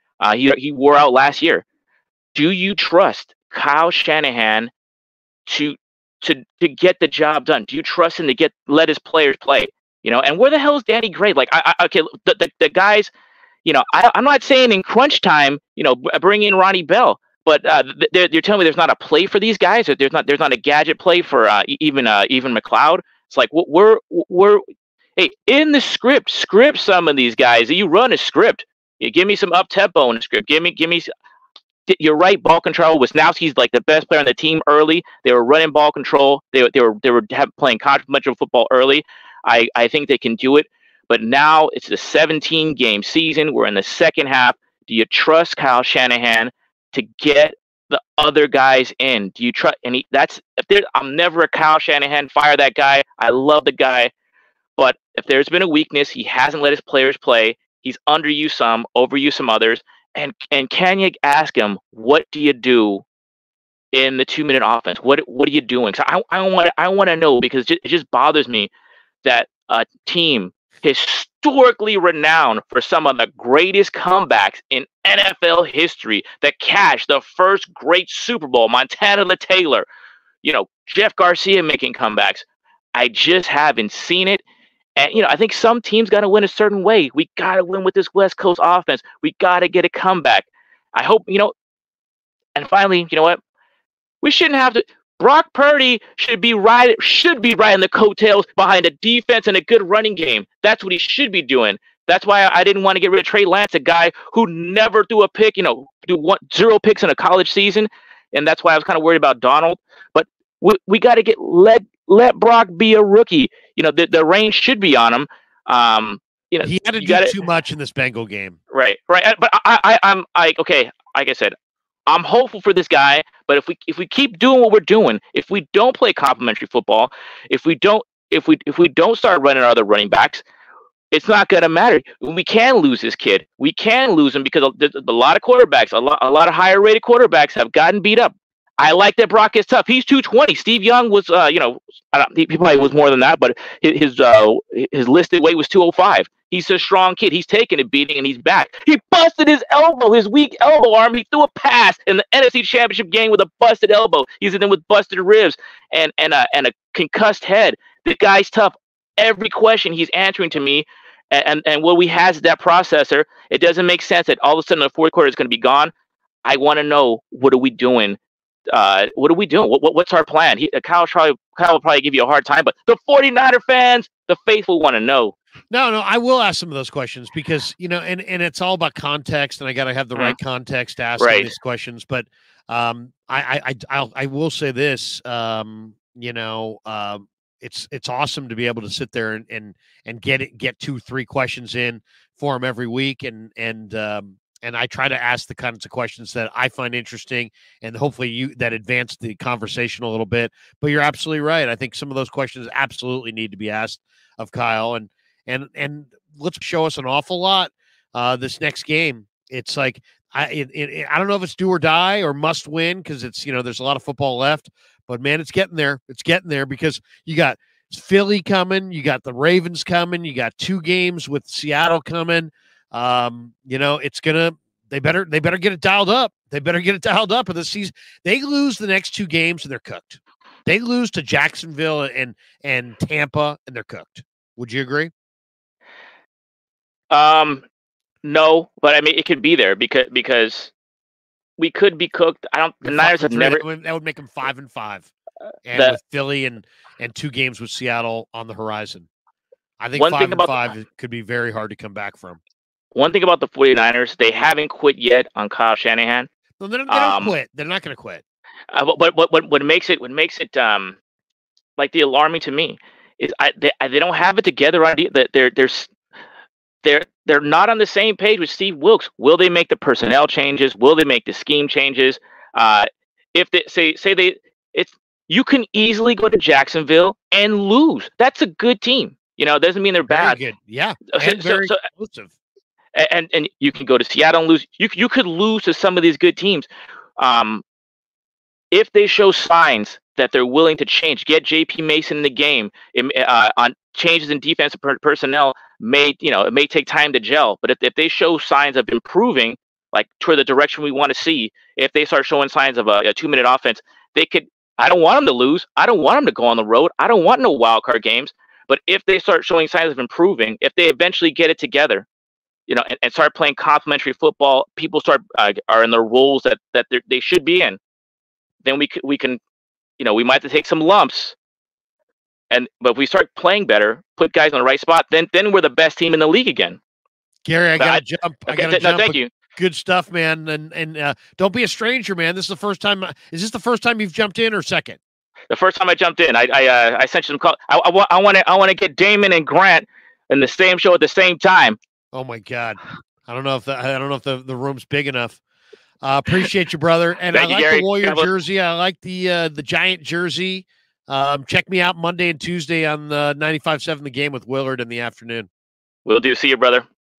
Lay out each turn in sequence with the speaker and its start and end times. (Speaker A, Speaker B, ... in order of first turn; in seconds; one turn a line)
Speaker A: 0.2-1.6
Speaker A: 2.3-4.7
Speaker A: 5.5-13.1
Speaker A: 13.7-24.6
Speaker A: 25.2-31.1
Speaker A: 31.9-54.1
Speaker A: 54.8-63.0
Speaker A: 63.9-68.7
Speaker A: 69.2-79.9
Speaker A: 80.4-84.4
Speaker A: 85.0-91.5
Speaker A: 92.5-93.4
Speaker A: 94.2-117.3
Speaker B: 116.6-118.6
Speaker A: 118.7-121.5
Speaker A: 122.1-130.4
Speaker A: 131.1-165.9
Speaker A: 166.4-168.2
Speaker A: 168.7-175.3
Speaker B: 175.7-235.1
Speaker A: 181.2-181.5
Speaker A: 237.1-237.7
Speaker A: 238.2-240.7
Speaker A: 241.6-243.6
Speaker B: 242.8-245.1
Speaker B: 245.7-249.1
Speaker B: 249.8-252.4
Speaker A: 250.0-250.7
Speaker A: 252.9-256.3
Speaker B: 256.6-258.2
Speaker A: 256.9-257.4
Speaker A: 258.7-261.0
Speaker A: 261.8-265.9
Speaker A: 266.8-280.4
Speaker B: 280.0-282.3
Speaker A: 281.1-281.8
Speaker A: 282.9-286.7
Speaker A: 287.2-287.6
Speaker A: 288.7-312.1
Speaker A: 312.7-317.8
Speaker A: 318.6-319.4
Speaker A: 320.0-321.4
Speaker A: 322.5-326.8
Speaker B: 327.5-335.0
Speaker A: 327.8-329.3
Speaker A: 335.5-341.8
Speaker B: 342.1-345.4
Speaker B: 346.0-355.5
Speaker A: 347.3-348.3
Speaker A: 356.1-356.9